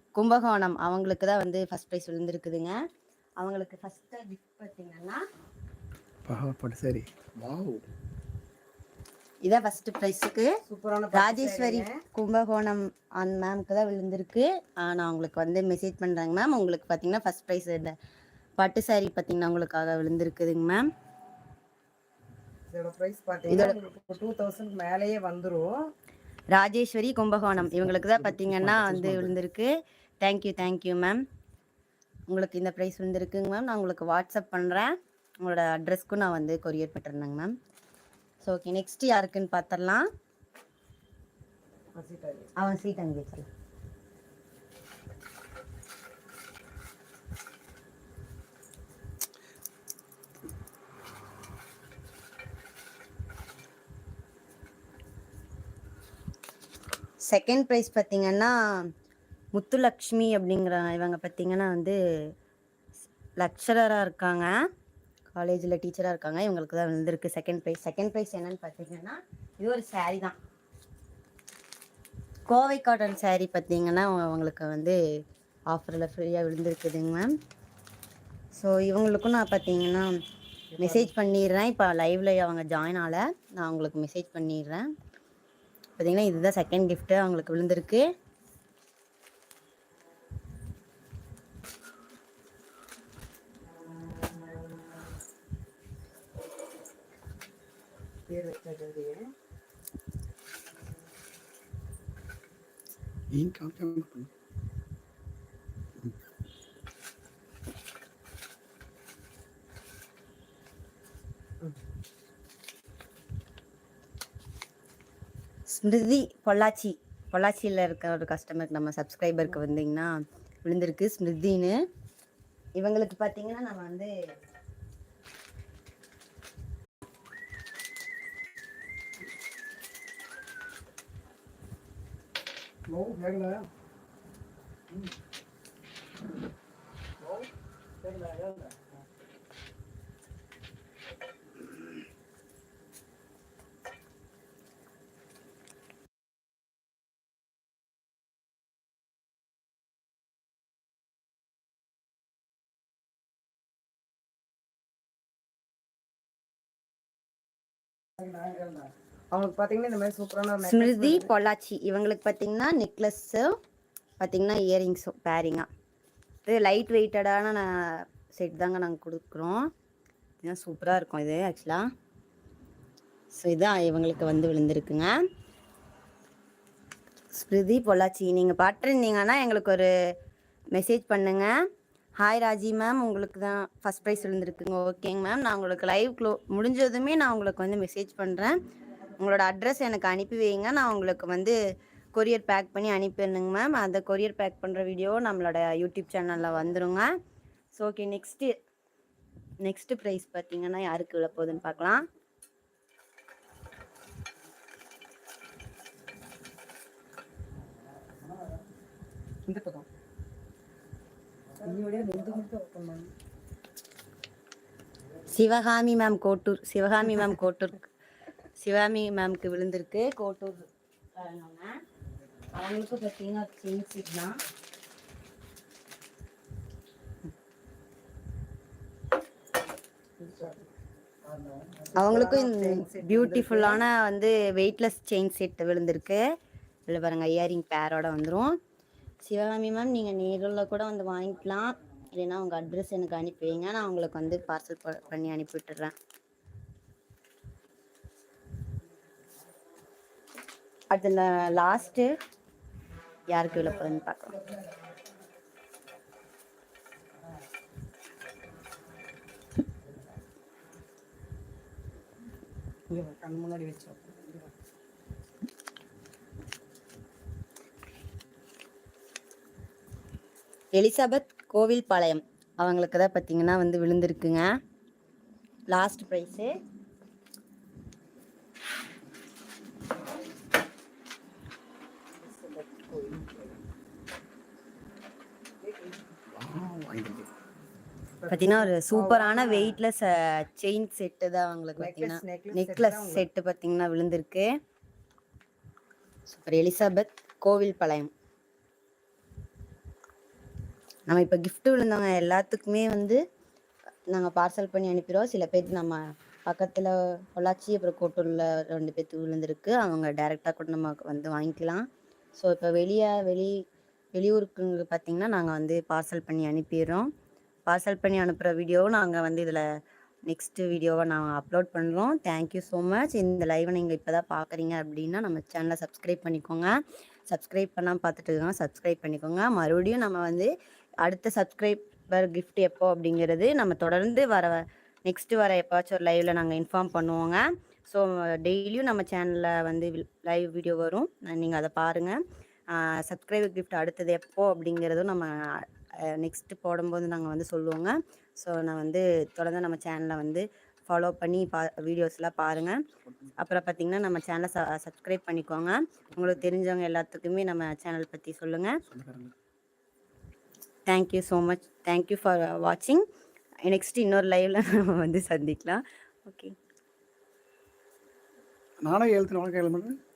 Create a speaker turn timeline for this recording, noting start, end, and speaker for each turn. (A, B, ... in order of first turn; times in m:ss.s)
0:00.2-0:02.8 A
0:03.4-0:05.2 A
0:06.2-0:07.9 B
0:09.4-0:10.5 A
0:10.7-0:12.0 C
0:11.1-0:18.0 A
0:18.6-0:20.9 A
0:22.7-0:25.8 C
0:23.5-0:23.8 A
0:26.5-0:31.2 A
0:27.7-0:29.3 B
0:32.3-0:37.5 A
0:38.4-0:40.1 A
0:42.0-0:42.5 C
0:42.6-0:43.5 A
0:57.2-0:58.9 A
0:59.5-1:02.0 A
1:03.4-1:04.5 A
1:05.3-1:10.4 A
1:12.5-1:15.0 A
1:15.7-1:17.3 A
1:18.6-1:20.1 A
1:20.8-1:21.1 C
1:20.8-1:24.9 A
1:26.0-1:28.1 A
1:38.3-1:39.3 C
1:43.3-1:44.3 B
1:55.7-2:01.8 A
2:02.8-2:04.1 A
2:12.9-2:13.6 C
2:18.0-2:18.7 C
2:38.2-2:41.3 C
2:40.6-2:43.6 A
2:44.2-2:45.7 A
2:46.4-2:49.7 A
2:50.4-2:51.8 A
2:53.4-2:55.1 A
2:57.3-2:59.9 A
3:00.7-3:01.5 A
3:02.2-3:08.6 A
3:09.2-3:11.6 A
3:12.1-3:17.1 A
3:17.8-3:18.5 A
3:19.6-3:22.0 A
3:29.5-3:29.9 C
3:31.6-3:33.1 C
3:35.3-3:37.9 A
3:38.6-3:41.8 A
3:42.5-3:44.4 A
3:50.2-3:50.7 C
3:51.9-3:53.8 C
3:51.9-3:56.2 A
3:56.9-3:58.6 A
3:59.2-4:05.9 A
4:10.9-4:12.1 A
4:13.3-4:14.4 A
4:22.9-4:24.5 C
4:30.7-4:34.5 A
4:35.7-4:36.5 A
4:42.2-4:43.6 C
4:45.6-4:46.0 C
4:46.3-4:47.3 B
4:48.2-4:49.8 C
4:48.3-4:54.5 A
4:51.8-4:53.2 C
4:56.3-4:58.1 A
5:01.1-5:03.2 A
5:04.1-5:11.8 A
5:12.4-5:13.6 A
5:14.1-5:17.1 A
5:17.7-5:19.7 A
5:20.3-5:26.7 A
5:27.3-5:30.5 A
5:31.0-5:42.2 A
5:42.7-5:52.8 A
5:53.4-5:58.8 A
5:58.9-5:59.3 B
6:00.9-6:03.0 A
6:03.6-6:06.6 A
6:08.8-6:10.0 B